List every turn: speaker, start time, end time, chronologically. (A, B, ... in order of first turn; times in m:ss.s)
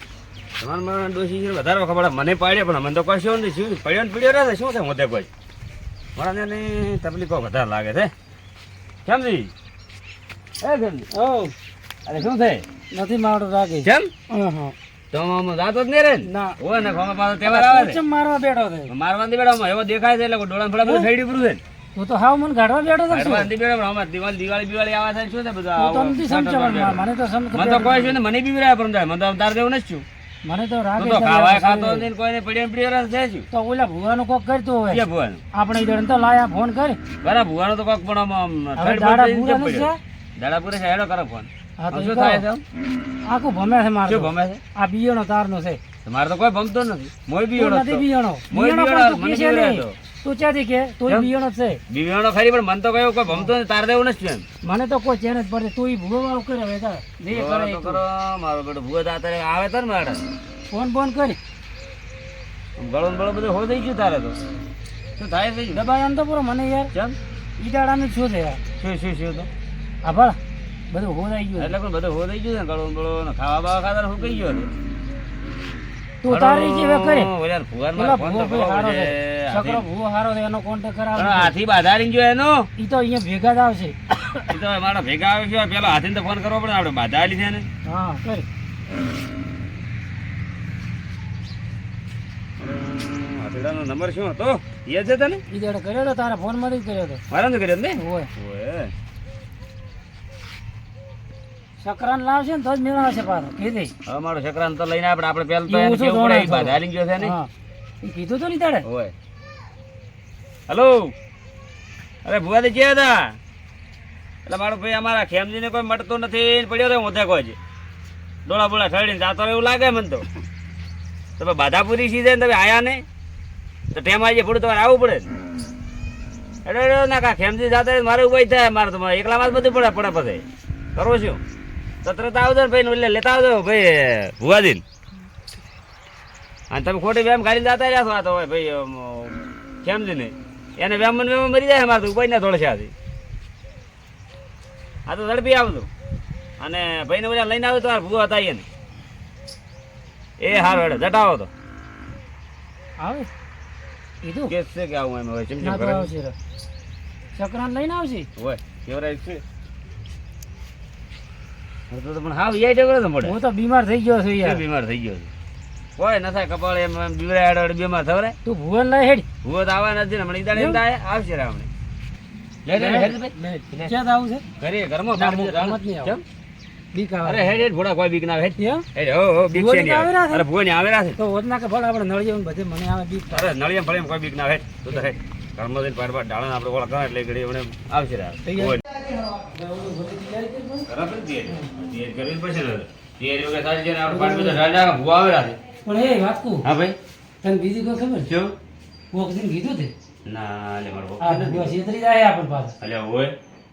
0:00.6-0:05.3 A
0:06.2-0:08.1 A
0:09.0-0:09.5 A
0:10.6-0:11.1 A
0:11.1-0:11.5 B
0:12.0-0:12.6 A
0:12.9-0:14.7 B
0:13.8-0:14.1 A
0:15.1-0:18.0 A
0:16.2-0:16.6 B
0:17.4-0:18.9 B
0:18.9-0:21.6 A
0:20.8-0:21.1 B
0:21.9-0:23.5 B
0:23.1-0:27.0 A
0:25.7-0:28.2 B
0:27.5-0:30.0 A
0:30.4-0:32.1 B
0:31.0-0:33.5 A
0:33.5-0:37.0 B
0:34.9-0:35.4 A
0:37.2-0:42.6 A
0:38.8-0:40.0 B
0:41.8-0:42.4 B
0:43.2-0:45.8 B
0:44.0-0:44.6 A
0:46.0-0:50.0 A
0:47.5-0:51.8 B
0:51.9-0:54.4 A
0:54.6-0:58.0 B
0:57.3-1:00.2 A
1:00.7-1:01.4 B
1:02.8-1:04.4 A
1:05.2-1:05.8 A
1:05.7-1:06.9 B
1:07.6-1:08.6 B
1:08.8-1:09.5 A
1:10.0-1:10.4 B
1:10.9-1:11.7 B
1:11.6-1:14.7 A
1:16.2-1:17.3 B
1:16.3-1:19.8 A
1:17.9-1:21.6 B
1:21.2-1:22.7 A
1:22.8-1:24.5 B
1:24.5-1:27.7 A
1:27.8-1:28.4 B
1:32.6-1:35.4 A
1:35.5-1:37.2 B
1:37.3-1:38.9 A
1:37.9-1:38.3 B
1:41.8-1:43.9 B
1:44.0-1:47.3 A
1:45.6-1:47.5 B
1:48.0-1:48.8 B
1:48.8-1:49.1 A
1:50.7-1:51.1 A
1:52.2-1:53.4 A
1:54.4-1:57.6 A
1:58.4-2:00.2 A
2:01.4-2:03.0 A
2:03.9-2:05.3 A
2:06.6-2:10.4 A
2:11.0-2:11.4 A
2:12.0-2:14.8 A
2:16.7-2:22.9 A
2:25.1-2:25.9 A
2:26.6-2:28.6 A
2:30.4-2:31.5 A
2:30.5-2:30.8 B
2:33.0-2:33.3 B
2:34.2-2:34.5 B
2:34.5-2:36.1 A
2:35.6-2:36.3 B
2:37.4-2:38.3 B
2:38.4-2:39.4 A
2:41.9-2:43.3 A
2:43.2-2:44.6 B
2:44.4-2:45.3 A
2:46.0-2:48.4 A
2:48.4-2:49.3 B
2:49.4-2:51.7 A
2:50.5-2:50.8 B
2:52.6-2:53.9 A
2:52.7-2:54.4 B
2:54.6-2:56.2 A
2:55.1-2:56.2 B
2:56.9-2:57.6 B
2:57.2-3:01.2 A
2:58.6-2:58.9 B
2:59.5-3:00.4 B
3:01.2-3:03.5 B
3:03.3-3:08.8 A
3:08.4-3:08.8 B
3:09.5-3:10.9 B
3:10.9-3:15.6 A
3:14.0-3:14.6 B
3:15.8-3:16.7 B
3:16.6-3:17.0 A
3:17.4-3:18.3 B
3:18.3-3:18.5 A
3:19.1-3:19.9 B
3:20.2-3:21.7 A
3:21.2-3:22.7 B
3:22.8-3:23.3 A